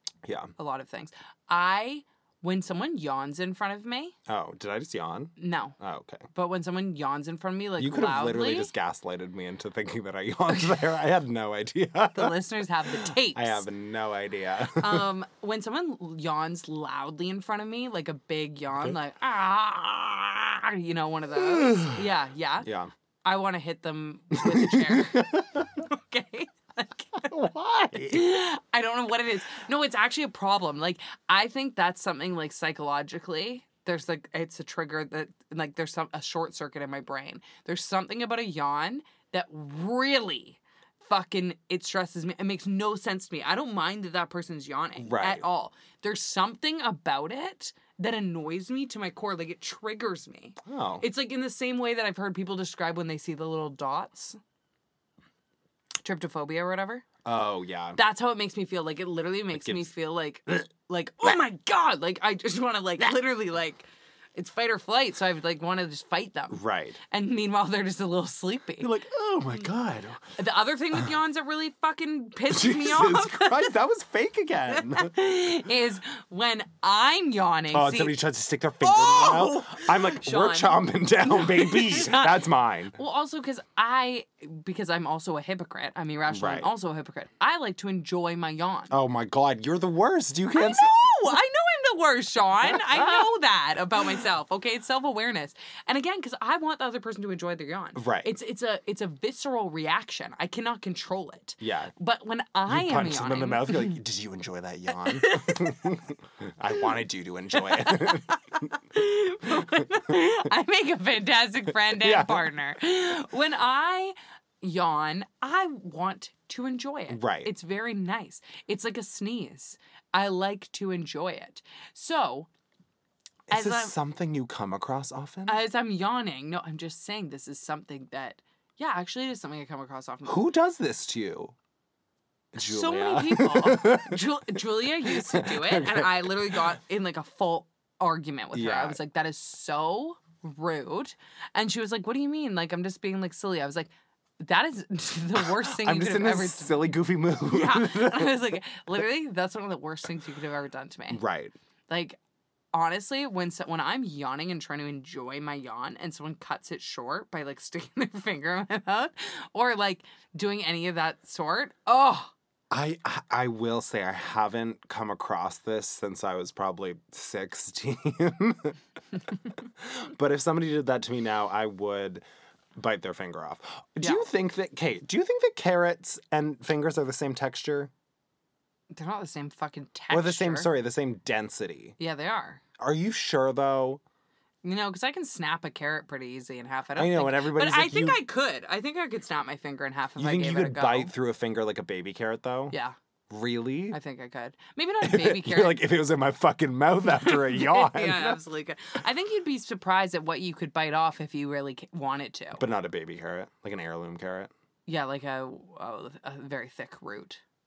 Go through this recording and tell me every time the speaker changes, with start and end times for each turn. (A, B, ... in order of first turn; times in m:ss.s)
0:00.2-0:00.5 A
0:00.6-0:04.1 B
0:04.3-0:06.3 A
0:05.4-0:05.8 B
0:06.3-0:08.7 B
0:07.8-0:15.1 A
0:12.1-0:13.6 B
0:14.8-0:22.7 B
0:21.6-0:22.0 A
0:22.6-0:22.9 A
0:23.2-0:27.3 B
0:24.3-0:25.7 A
0:27.3-0:28.4 A
0:28.1-0:54.4 B
0:45.0-0:45.4 A
0:50.6-0:51.0 A
0:56.0-0:57.0 B
0:57.2-0:58.0 A
0:58.0-1:08.9 B
0:59.5-0:59.9 A
1:06.5-1:07.0 A
1:08.8-1:10.3 A
1:10.4-1:13.8 B
1:12.5-1:15.2 A
1:14.7-1:18.2 B
1:17.7-1:23.0 A
1:18.8-1:28.9 B
1:26.3-1:26.7 A
1:28.9-1:31.0 A
1:30.5-1:44.0 B
1:32.7-1:33.2 A
1:38.0-1:38.3 A
1:41.6-1:41.9 A
1:42.7-1:48.7 A
1:44.9-1:45.9 B
1:47.6-2:02.5 B
1:51.9-1:52.5 A
1:57.1-1:57.5 A
2:03.5-2:05.6 A
2:03.5-2:03.9 B
2:05.5-2:10.5 B
2:10.2-2:11.5 A
2:12.5-2:16.6 A
2:12.6-2:31.2 B
2:18.5-2:19.0 A
2:25.4-2:28.5 A
2:31.1-2:31.5 A
2:31.9-2:32.2 B
2:32.7-2:42.3 B
2:42.7-2:48.8 A
2:49.8-2:52.2 A
2:52.8-2:57.9 A
2:54.0-2:54.2 B
2:58.9-3:00.7 B
3:00.1-3:02.0 A
3:02.0-3:02.6 B
3:02.8-3:04.0 A
3:04.6-3:11.1 B
3:07.0-3:08.2 A
3:10.2-3:12.8 A
3:13.3-3:14.0 A
3:13.9-3:15.8 B
3:15.0-3:18.4 A
3:17.1-3:22.6 B
3:22.6-3:24.5 A
3:24.9-3:27.4 B